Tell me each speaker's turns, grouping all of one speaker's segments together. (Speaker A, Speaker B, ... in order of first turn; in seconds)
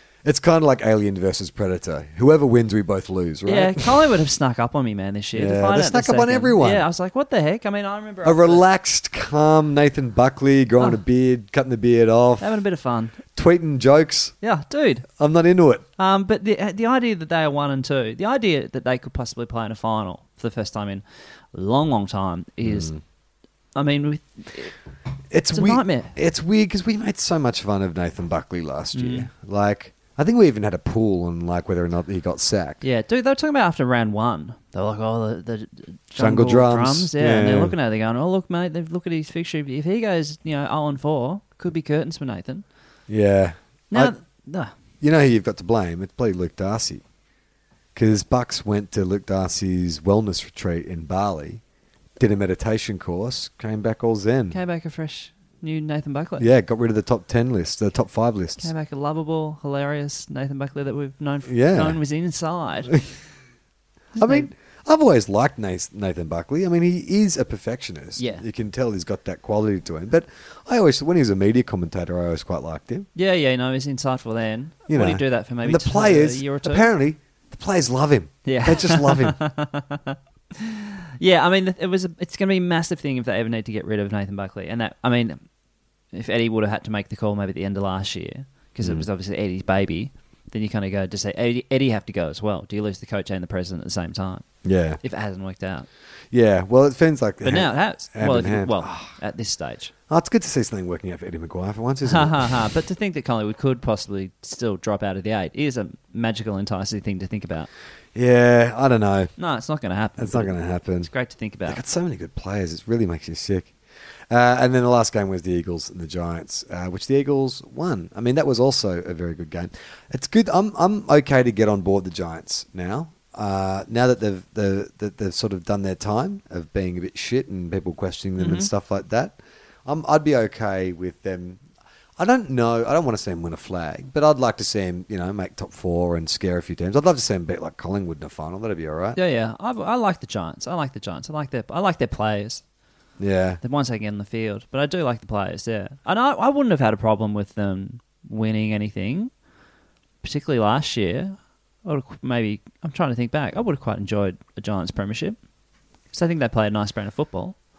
Speaker A: 0.2-4.0, 5.3-6.8, 8.2-12.5, 13.3-14.3, 15.2-15.8, 22.6-23.0, 25.3-32.8, 36.1-37.8, 43.1-44.1, 45.0-47.0, 48.0-51.6, 52.2-54.6, 56.4-58.7, 61.5-62.0, 64.2-73.1, 74.9-79.4, 94.6-95.0, 96.3-99.1, 100.1-102.5, 108.2-109.3, 110.2-111.1, 111.7-113.7, 114.3-131.6, 132.2-139.2, 143.2-143.6
Speaker B: 3.5-8.6, 12.4-13.2, 14.4-15.1, 16.0-22.9, 23.8-24.7, 25.5-26.1, 28.9-29.3, 32.8-42.6, 43.9-44.7, 54.5-56.5, 58.6-62.9, 64.2-64.5, 68.2-68.4, 73.2-76.9, 78.5-85.4, 86.1-94.5, 95.0-95.9, 97.4-99.9, 102.1-107.7, 109.4-111.8, 128.4-128.7, 139.2-142.6, 143.6-149.3, 150.2-155.4, 156.1-157.6